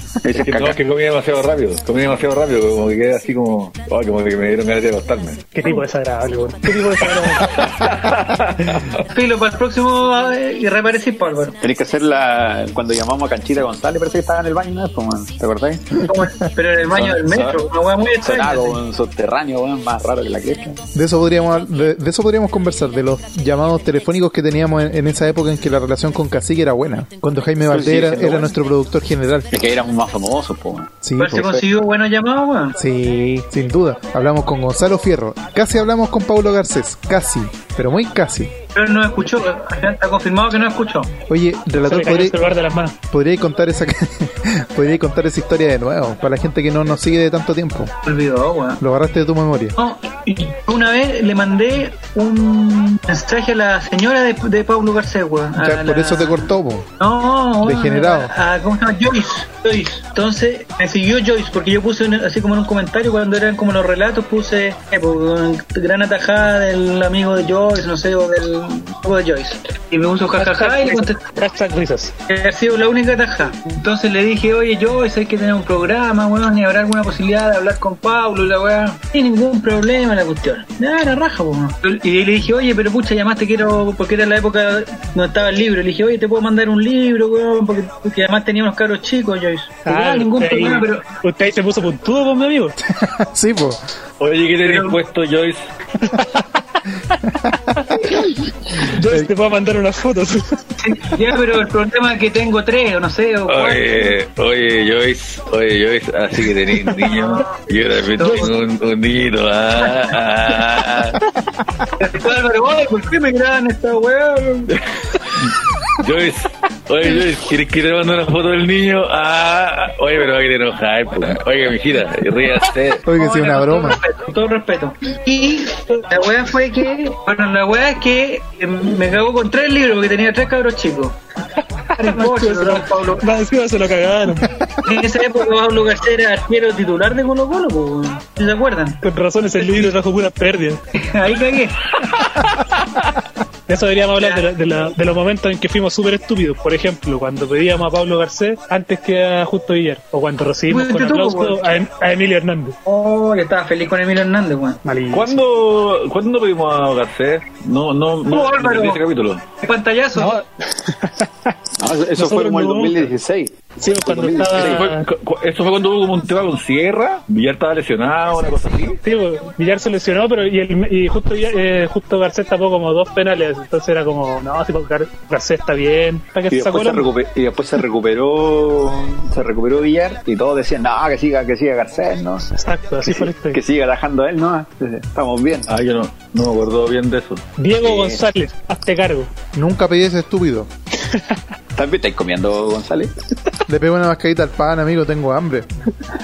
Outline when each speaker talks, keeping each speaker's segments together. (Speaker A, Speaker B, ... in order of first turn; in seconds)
Speaker A: 0.2-0.8, 11.6-16.0, 16.9-17.6, 18.2-20.8, 27.7-28.5, 29.5-30.9, 161.8-164.9, 176.5-182.5, 183.0-185.7, 187.8-188.2, 191.7-193.1
Speaker B: 0.4-5.5, 7.4-9.0, 94.2-95.6, 103.5-111.2, 116.0-123.0, 155.1-159.4, 164.5-169.0, 185.7-187.4
Speaker C: 5.5-7.5, 41.8-43.0, 70.3-72.1, 89.8-92.8, 96.0-96.4, 97.9-98.2, 98.8-100.6, 108.2-108.5, 131.9-134.4, 139.0-140.8, 143.7-152.8, 154.8-155.4, 160.2-161.3, 162.2-163.1, 163.8-165.1, 169.0-177.1, 182.5-183.6, 187.6-189.3, 191.1-191.4
Speaker D: 9.1-11.6, 16.0-18.8, 31.2-32.8, 38.8-41.1, 48.0-48.8, 49.8-71.4, 72.3-91.0, 94.6-95.0, 100.8-104.2, 107.0-107.5, 108.0-108.5, 109.8-110.1, 112.0-114.8, 123.0-131.2, 132.0-133.3, 134.8-139.0, 139.6-139.9, 140.9-141.9, 144.2-144.5, 150.7-151.8, 152.8-154.8, 158.3-159.0, 159.6-160.4
Speaker E: 20.9-29.5, 31.0-31.6, 32.8-38.5, 41.3-42.4, 43.1-47.9, 48.8-49.8, 55.6-56.9, 57.6-58.3, 92.8-93.8, 97.5-98.2, 99.0-99.3, 123.1-124.0, 189.5-190.7, 193.7-195.7